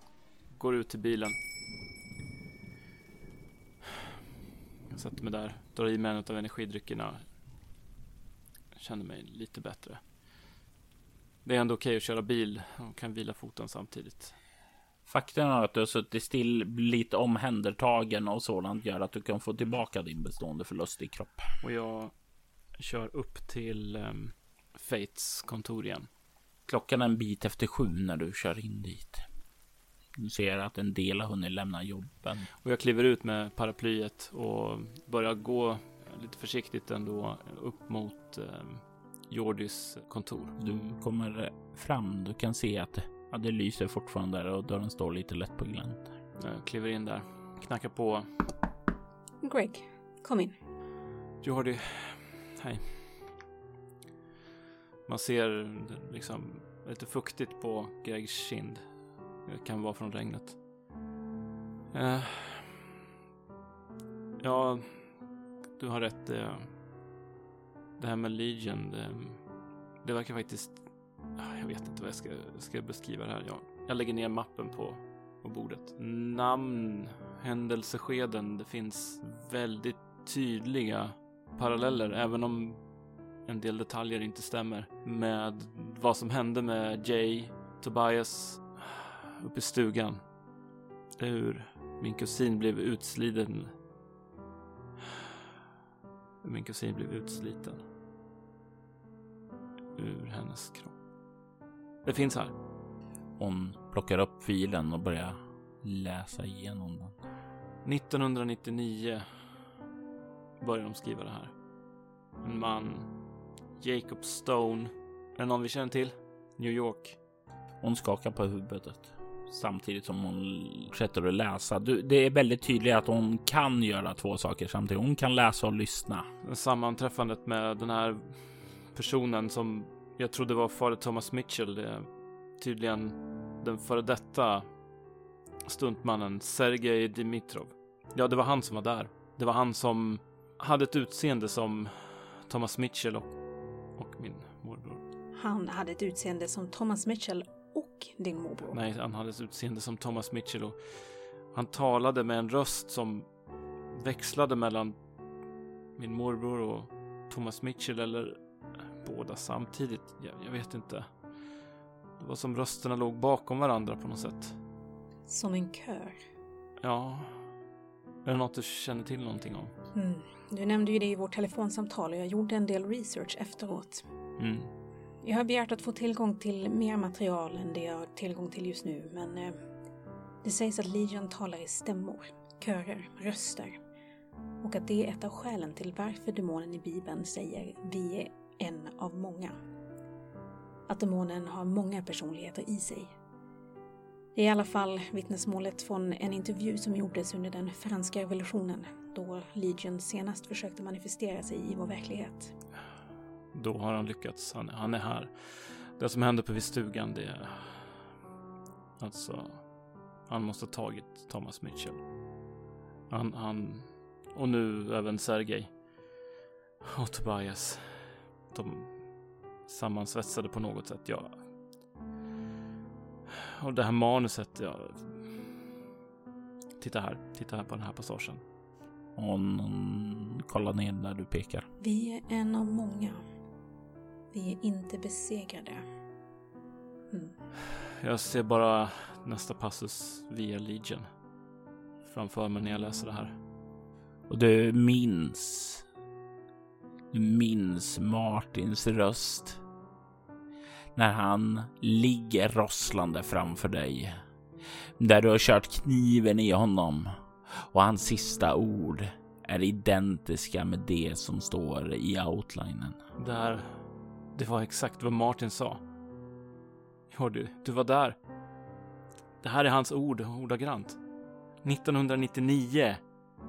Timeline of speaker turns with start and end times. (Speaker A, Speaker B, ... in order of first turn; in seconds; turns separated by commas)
Speaker A: 0.5-1.4, Speaker A: 4.9-7.3, Speaker A: 8.7-10.0, Speaker A: 11.4-14.4, Speaker B: 15.1-21.4, Speaker A: 21.6-22.2, Speaker A: 22.7-26.1, Speaker B: 26.7-29.2, Speaker B: 30.2-32.5, Speaker A: 32.6-40.6, Speaker B: 40.6-46.1, Speaker A: 46.4-48.3, Speaker C: 49.4-50.6, Speaker A: 51.4-53.3, Speaker A: 55.1-58.9, Speaker A: 59.4-60.6, Speaker A: 61.9-62.9, Speaker A: 64.4-65.2, Speaker A: 65.8-66.7, Speaker A: 68.0-69.5, Speaker A: 70.0-82.8, Speaker A: 83.5-90.2, Speaker A: 91.2-93.7, Speaker A: 96.4-97.8, Speaker A: 100.0-101.0, Speaker A: 102.0-102.5, Speaker B: 103.4-107.2, Speaker A: 107.8-109.5, Speaker A: 110.6-111.5, Speaker A: 112.4-113.1, Speaker A: 113.8-117.2, Speaker B: 117.8-126.3, Speaker A: 126.4-134.7, Speaker A: 135.7-145.0, Speaker C: 145.4-148.8, Speaker A: 148.7-153.3, Speaker A: 153.9-155.0, Speaker A: 156.0-161.5, Speaker A: 162.2-164.6, Speaker C: 165.3-166.2, Speaker A: 166.8-167.4, Speaker A: 168.2-169.7, Speaker C: 169.9-174.0, Speaker A: 174.4-174.7, Speaker C: 175.2-179.6, Speaker C: 180.4-183.8, Speaker C: 184.6-189.6, Speaker C: 190.9-193.1, Speaker C: 194.3-202.5, Speaker A: 203.5-208.1, Speaker A: 209.0-209.7, Speaker A: 210.3-212.0, Speaker A: 213.1-215.8, Speaker A: 216.8-219.1, Speaker A: 219.7-221.5, Speaker A: 223.6-225.6, Speaker A: 226.8-228.4, Speaker B: 229.2-231.7, Speaker C: 231.8-233.2, Speaker C: 234.3-235.8, Speaker A: 237.9-241.1, Speaker A: 242.0-243.3, Speaker B: 244.3-245.8, Speaker B: 247.1-249.6, Speaker B: 250.9-254.1, Speaker B: 255.0-263.0, Speaker A: 263.2-265.8, Speaker A: 267.1-268.2, Speaker A: 269.4-271.0, Speaker A: 271.6-273.0